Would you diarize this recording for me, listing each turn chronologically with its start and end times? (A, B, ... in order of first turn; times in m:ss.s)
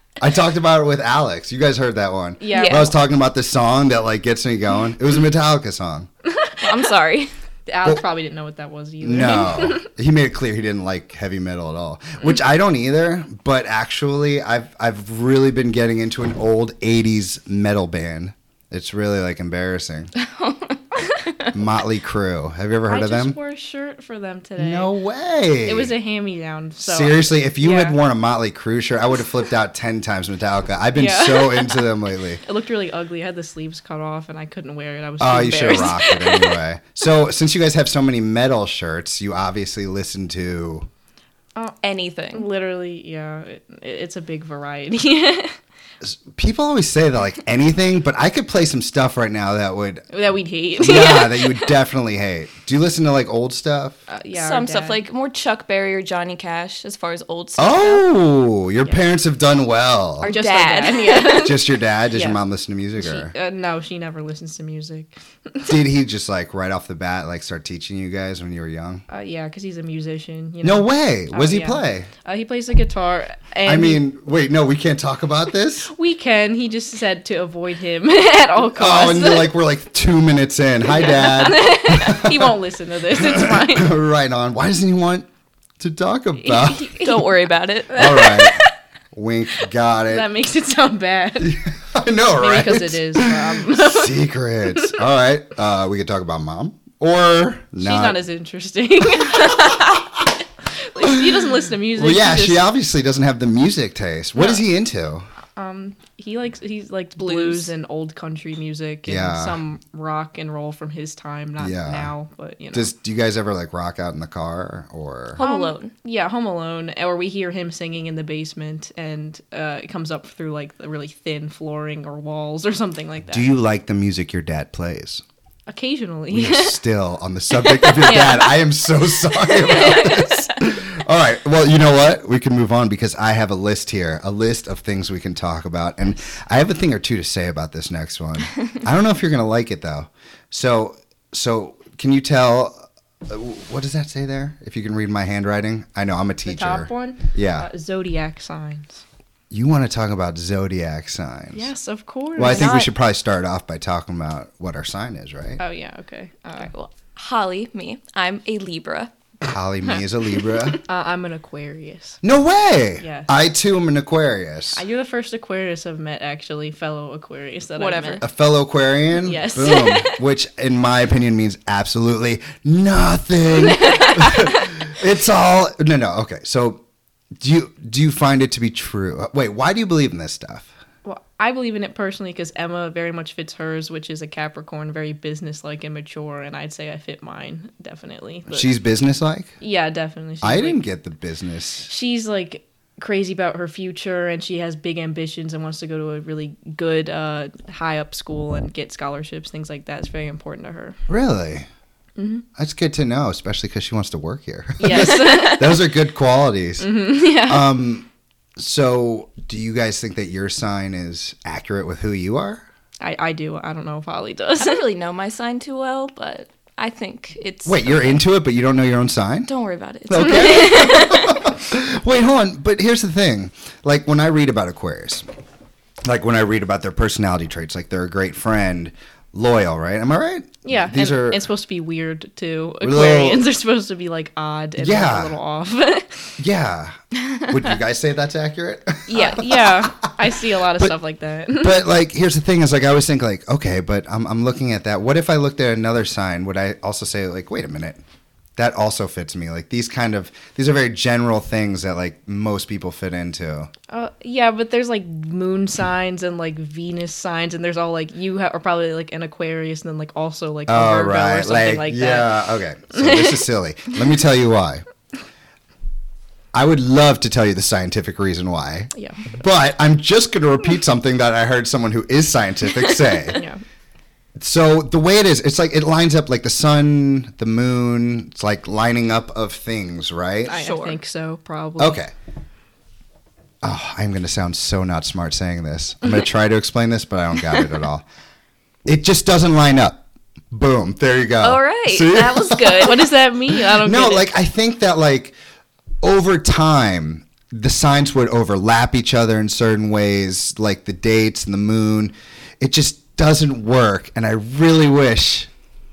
0:00.2-0:06.1 A
0:02.4-0:02.9 B
0:02.5-0:02.9 C
0:06.3-0:06.8 B
0:06.6-0:07.3 C
0:07.7-0:09.8 B
0:09.0-0:20.1 A
0:20.2-0:21.3 C
0:21.5-0:23.4 A
0:22.9-0:24.9 B
0:24.6-0:25.9 A
0:25.6-0:28.0 B
0:26.8-0:32.4 A
0:30.9-0:36.6 B
0:35.2-0:40.9 A
0:41.8-0:42.5 C
0:42.3-0:45.6 B
0:46.0-0:50.0 A
0:50.1-0:51.7 B
0:50.8-0:54.0 A
0:54.1-0:55.0 B
0:54.3-0:58.0 C
0:57.6-1:00.3 A
1:00.2-1:02.4 B
1:00.2-1:01.6 C
1:01.2-1:03.3 A
1:03.0-1:05.7 B
1:05.6-1:09.0 A
1:09.1-1:14.0 B
1:10.6-1:12.1 A
1:13.6-1:15.9 A
1:15.9-1:19.5 B
1:18.6-1:22.6 A
1:20.8-1:24.0 B
1:23.1-1:25.2 A
1:25.8-1:27.0 A
1:26.4-1:27.3 B
1:27.0-1:28.3 C
1:27.9-1:30.3 A
1:28.0-1:28.7 B
1:30.1-1:31.6 B
1:31.4-1:38.2 A
1:32.4-1:34.2 B
1:37.8-1:40.1 B
1:40.8-1:42.7 B
1:41.9-1:45.3 A
1:45.6-1:52.9 B
1:47.2-1:47.7 C
1:49.0-1:49.6 A
1:51.6-1:52.1 A
1:52.7-1:55.4 A
1:55.3-1:55.9 C
1:55.4-2:03.5 B
2:03.3-2:05.2 A
2:05.7-2:06.8 B
2:06.3-2:27.7 A
2:07.8-2:08.1 B
2:08.0-2:08.6 C
2:09.7-2:10.2 C
2:09.7-2:10.2 B
2:26.4-2:29.0 B
2:29.5-2:31.7 A
2:31.5-2:32.8 B
2:32.4-2:35.6 A
2:32.4-2:32.9 C
2:35.6-2:36.7 B
2:36.6-2:39.1 C
2:39.4-2:40.8 A
2:40.8-2:42.2 B
2:42.2-2:44.8 A
2:43.0-2:43.3 B
2:44.8-2:48.2 B
2:47.8-2:48.2 C
2:48.2-2:56.8 A
2:49.1-2:50.2 B
2:53.8-2:54.2 B
2:57.4-3:00.7 A
3:01.0-3:08.7 B
3:08.5-3:09.5 A
3:09.6-3:10.8 B
3:10.4-3:11.9 A
3:11.9-3:21.0 B
3:21.1-3:21.6 A
3:22.2-3:22.4 B
3:22.5-3:28.0 A
3:24.8-3:25.9 B
3:25.0-3:25.3 C
3:26.8-3:27.8 B
3:28.6-3:32.6 A
3:33.0-3:34.8 B
3:34.6-3:38.2 C
3:37.6-3:39.5 A
3:39.4-3:41.4 C
3:40.1-3:45.2 A
3:46.0-3:51.4 A
3:50.6-3:56.4 B
3:52.8-3:53.4 A
3:54.8-3:55.3 A
3:56.4-4:00.1 A
3:59.1-3:59.5 C
3:59.1-4:01.9 B
4:01.5-4:08.0 A
4:08.6-4:13.7 A
4:13.9-4:22.4 B
4:20.7-4:24.8 A
4:22.9-4:23.4 B
4:26.5-4:33.4 A
4:28.9-4:29.2 B
4:33.3-4:33.6 B
4:34.4-4:40.6 A
4:40.5-4:41.0 C
4:40.5-4:42.0 B
4:41.8-4:42.1 A
4:43.6-4:48.0 A
4:48.8-4:52.8 A
4:51.4-4:53.1 C
4:52.8-4:54.3 B
4:53.7-4:55.3 A
4:56.0-5:05.5 A